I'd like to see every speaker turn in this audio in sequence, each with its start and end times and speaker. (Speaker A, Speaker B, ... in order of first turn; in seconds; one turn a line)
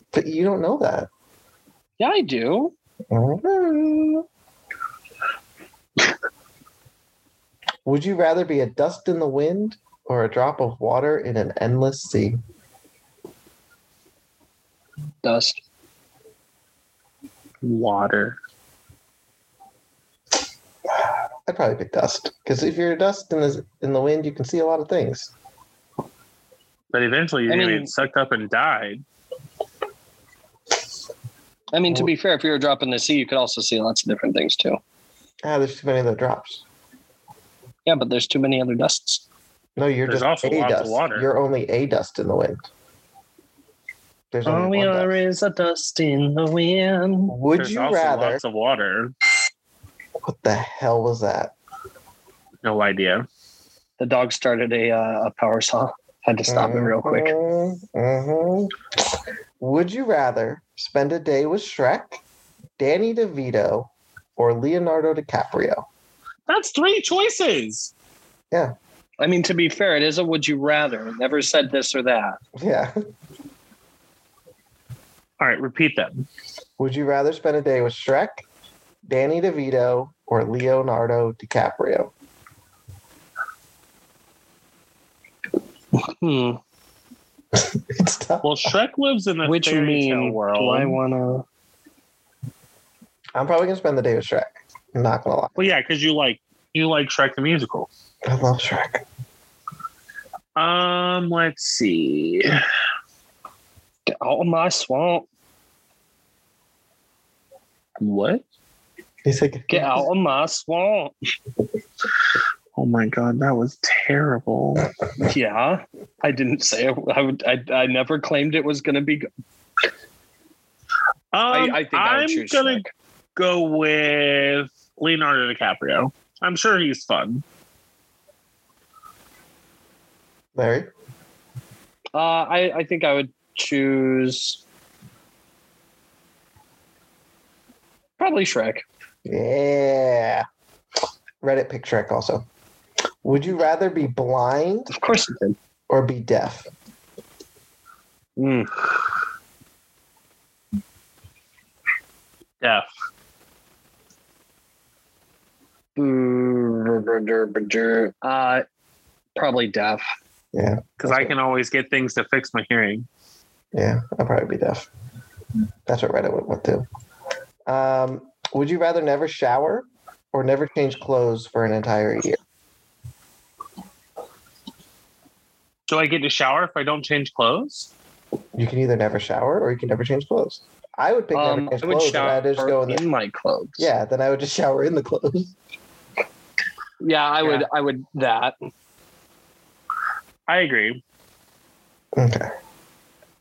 Speaker A: 0.1-1.1
Speaker B: 2.0-2.7
Speaker A: 3.1-4.2
Speaker A: 7.8-12.4
Speaker B: 15.2-15.6
Speaker C: 17.6-18.4
Speaker A: 21.5-25.3
Speaker C: 26.9-29.0
Speaker B: 27.5-27.9
Speaker B: 31.7-34.8
Speaker A: 35.4-36.6
Speaker B: 37.9-39.2
Speaker A: 39.8-42.6
Speaker C: 40.1-41.3
Speaker A: 44.3-45.2
Speaker B: 44.5-47.3
Speaker A: 47.3-48.4
Speaker C: 47.5-49.1
Speaker A: 50.2-51.5
Speaker C: 52.6-53.2
Speaker B: 54.0-57.3
Speaker A: 56.5-58.7
Speaker A: 59.6-62.2
Speaker A: 62.8-65.8
Speaker C: 66.5-67.9
Speaker B: 69.2-72.4
Speaker A: 72.6-72.9
Speaker C: 75.4-76.2
Speaker A: 76.8-78.4
Speaker A: 79.1-82.1
Speaker B: 86.0-86.6
Speaker A: 87.5-88.7
Speaker C: 88.4-91.0
Speaker B: 89.4-91.4
Speaker A: 93.3-95.6
Speaker C: 95.6-97.9
Speaker A: 98.2-99.0
Speaker C: 100.5-102.6
Speaker B: 104.1-105.2
Speaker C: 108.0-108.4
Speaker A: 109.2-110.1
Speaker B: 109.7-111.1
Speaker C: 112.8-114.9
Speaker B: 115.2-119.3
Speaker C: 121.3-122.8
Speaker B: 121.5-122.9
Speaker C: 123.3-127.4
Speaker A: 130.6-130.9
Speaker B: 132.1-134.6
Speaker B: 138.2-138.8
Speaker A: 139.2-140.4
Speaker A: 141.4-142.4
Speaker A: 143.2-144.9
Speaker B: 144.9-145.6
Speaker A: 145.9-146.7
Speaker B: 148.4-148.9
Speaker C: 152.6-152.9
Speaker B: 155.9-158.6
Speaker B: 159.3-160.1
Speaker A: 160.5-161.3
Speaker C: 161.0-163.1
Speaker A: 163.7-164.9
Speaker A: 165.9-166.8
Speaker A: 167.7-172.4
Speaker C: 175.9-177.9
Speaker A: 178.6-183.0
Speaker B: 181.3-183.9
Speaker A: 183.8-185.5
Speaker B: 187.0-188.5
Speaker C: 190.5-191.0
Speaker A: 192.2-192.5